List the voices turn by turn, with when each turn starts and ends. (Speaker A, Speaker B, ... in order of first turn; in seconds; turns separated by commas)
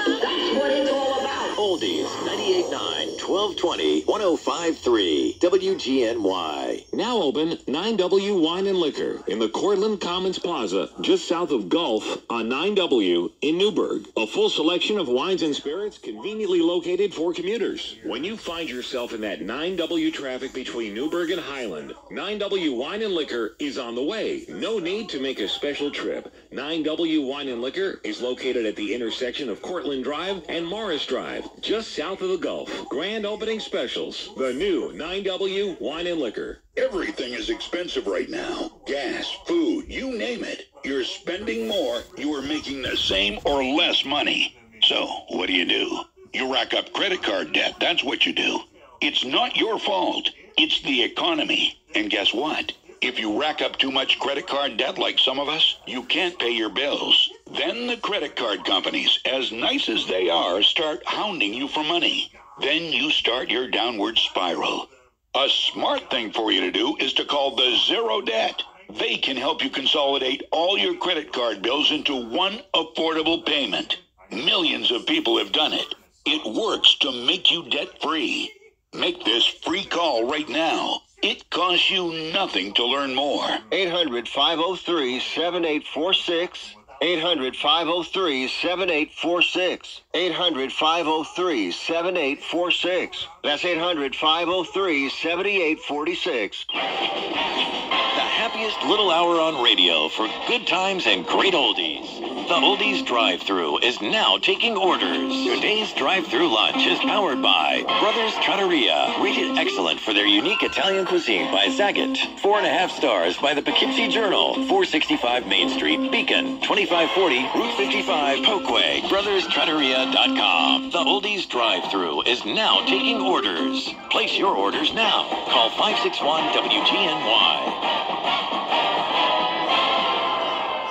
Speaker A: 0.4-1.4, Speaker B: 1.5-6.8, Speaker C: 6.9-36.6, Speaker D: 36.8-83.6, Speaker A: 83.7-96.7, Speaker B: 98.1-127.8